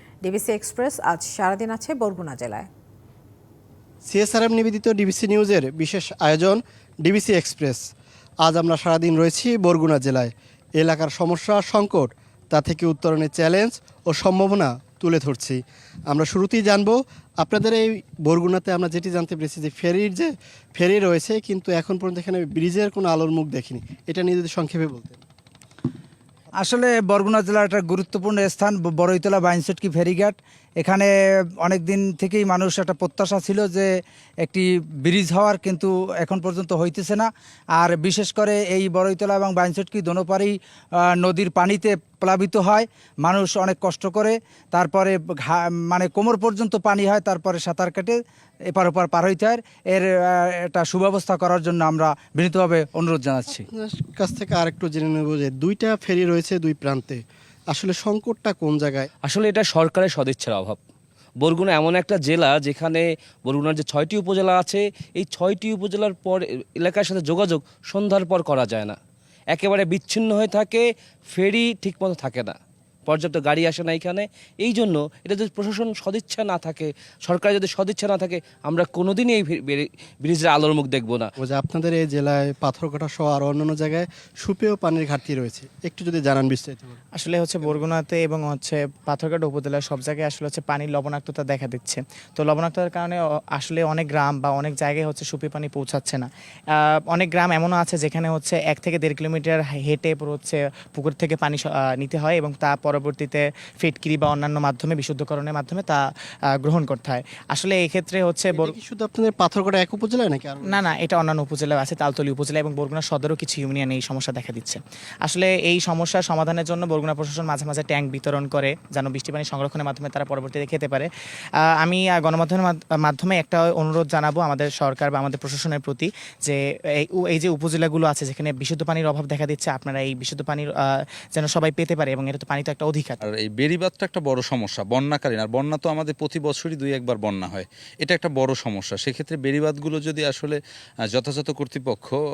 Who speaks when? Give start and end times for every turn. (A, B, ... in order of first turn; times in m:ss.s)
0:00.2-0:02.7 A
0:04.0-0:07.8 B
0:08.4-0:15.6 B
0:16.1-0:25.2 B
0:26.6-0:31.1 C
0:31.6-0:33.9 C
0:34.5-0:40.6 C
0:41.2-0:48.2 C
0:48.7-0:50.0 C
0:50.7-0:53.7 C
0:53.6-0:59.1 B
0:59.2-1:00.8 D
1:01.4-1:09.0 D
1:09.5-1:12.6 D
1:13.1-1:21.3 D
1:21.4-1:27.0 B
1:27.2-1:46.0 E
1:46.6-1:48.8 E
1:48.5-1:50.8 B
1:50.7-2:01.1 E
2:01.8-2:10.7 E
2:11.3-2:13.2 E
2:13.2-2:20.6 F
2:21.1-2:22.2 F